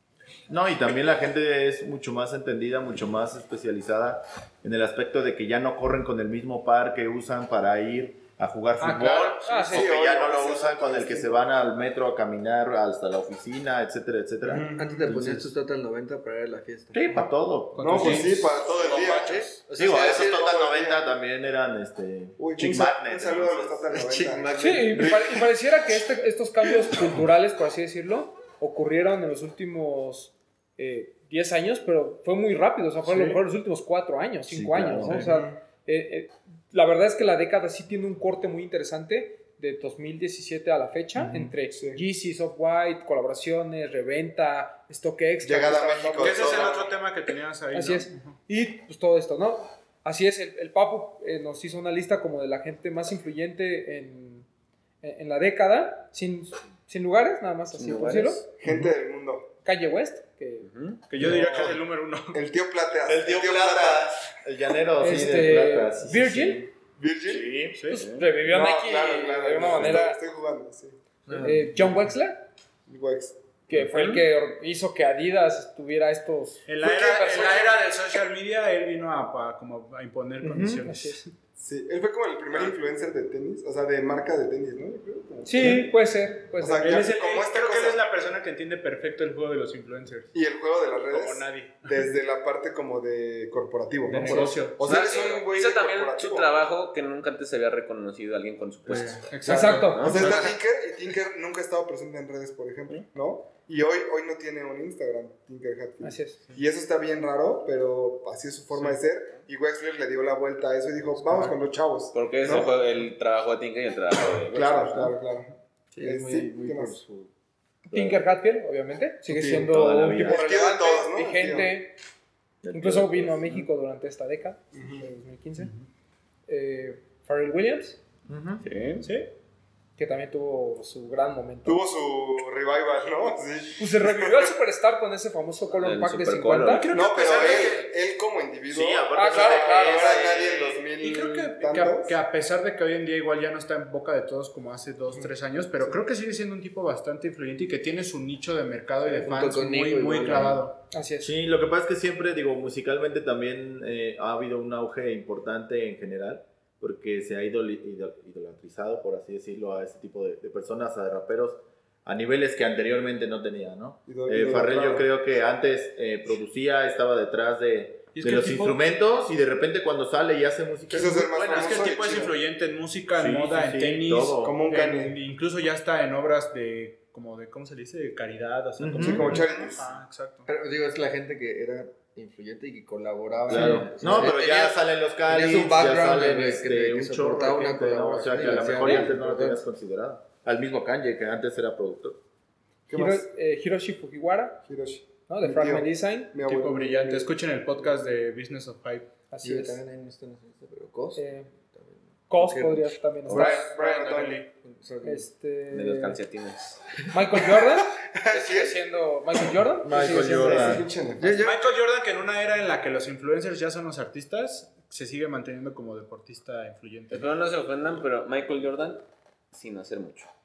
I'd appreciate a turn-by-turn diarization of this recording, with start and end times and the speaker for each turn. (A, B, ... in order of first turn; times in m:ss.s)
0:00.5-0:15.5 A
0:08.8-0:09.6 B
0:09.4-0:09.9 C
0:09.7-0:11.4 D
0:14.4-0:15.1 D
0:14.7-0:17.2 E
0:16.9-0:18.6 A
0:17.7-0:19.6 B
0:17.8-0:21.0 D
0:19.7-0:23.8 A
0:22.4-0:25.0 D
0:23.9-0:25.4 E
0:24.6-0:46.8 C
0:33.0-0:33.4 B
0:34.5-0:35.3 A
0:35.1-0:35.6 D
0:41.2-0:41.5 A
0:41.7-0:42.0 D
0:45.4-0:46.9 D
0:46.2-0:48.4 B
0:47.7-0:54.4 C
0:55.0-0:58.4 C
0:57.7-0:58.5 F
0:58.6-0:59.5 D
0:59.6-1:00.7 C
1:00.6-1:01.0 F
1:01.1-1:02.4 B
1:01.5-1:01.7 A
1:02.3-1:04.2 D
1:03.0-1:06.7 A
1:05.0-1:06.6 C
1:07.0-1:07.5 D
1:07.2-1:07.8 A
1:07.7-1:08.0 B
1:07.9-1:10.2 C
1:07.9-1:08.2 F
1:08.4-1:11.0 D
1:11.3-1:11.7 E
1:11.4-1:12.4 C
1:12.9-1:13.4 D
1:13.7-1:17.8 C
1:13.9-1:14.2 F
1:16.6-1:21.3 B
1:16.8-1:17.7 D
1:20.4-1:20.8 A
1:20.8-1:21.2 C
1:21.6-1:25.9 D
1:25.4-1:27.0 C
1:26.6-1:28.0 D
1:26.8-1:30.3 B
1:30.3-1:36.5 D
1:31.1-1:32.0 B
1:34.1-1:34.9 B
1:34.2-1:34.6 C
1:34.8-1:40.5 F
1:38.9-1:40.5 B
1:39.4-1:40.1 C
1:40.0-1:52.7 D
1:46.0-1:46.4 C
1:48.7-1:49.0 B
1:52.1-1:55.1 F
1:54.5-1:57.0 D
1:55.9-1:57.3 E
1:57.9-2:02.0 C
1:59.3-1:59.6 D
1:59.4-2:00.5 A
2:00.2-2:01.7 D
2:02.6-2:03.7 A
2:02.7-2:05.7 C
2:04.7-2:05.2 D
2:06.5-2:08.0 C
2:08.3-2:08.6 A
2:08.6-2:09.1 F
2:09.0-2:09.3 B
2:10.0-2:11.8 C
2:11.6-2:14.5 D
2:13.8-2:16.8 C
2:15.7-2:16.9 F
2:16.7-2:17.9 B
2:16.9-2:22.2 D
2:18.7-2:20.8 A
2:19.1-2:20.2 C
2:21.0-2:30.8 B
2:29.0-2:30.6 E
2:30.9-2:31.3 C
2:31.2-2:51.9 A
2:44.1-2:45.1 D
2:48.1-2:48.8 B
2:50.9-2:52.3 D
2:51.3-3:00.5 B
2:53.1-2:54.6 A
2:54.4-2:55.2 D
2:58.8-2:59.5 A
2:59.0-2:59.9 D
3:00.5-3:09.6 E
3:03.5-3:12.2 A
3:12.9-3:13.3 D
3:12.9-3:14.6 C
3:14.6-3:17.4 D
3:15.3-3:16.3 C
3:16.4-3:19.1 B
3:19.3-3:19.8 C
3:19.4-3:23.0 E
3:21.2-3:21.5 C
3:22.3-3:23.6 C
3:23.3-3:24.4 D
3:23.3-3:24.5 B
3:24.6-3:25.3 E
3:25.0-3:26.2 C
3:25.7-3:26.8 F
3:27.1-3:30.8 C
3:28.0-3:28.8 D
3:29.8-3:30.8 A
3:30.3-3:31.4 D
3:31.2-3:31.7 E
3:31.4-3:37.3 B
3:37.1-3:40.3 F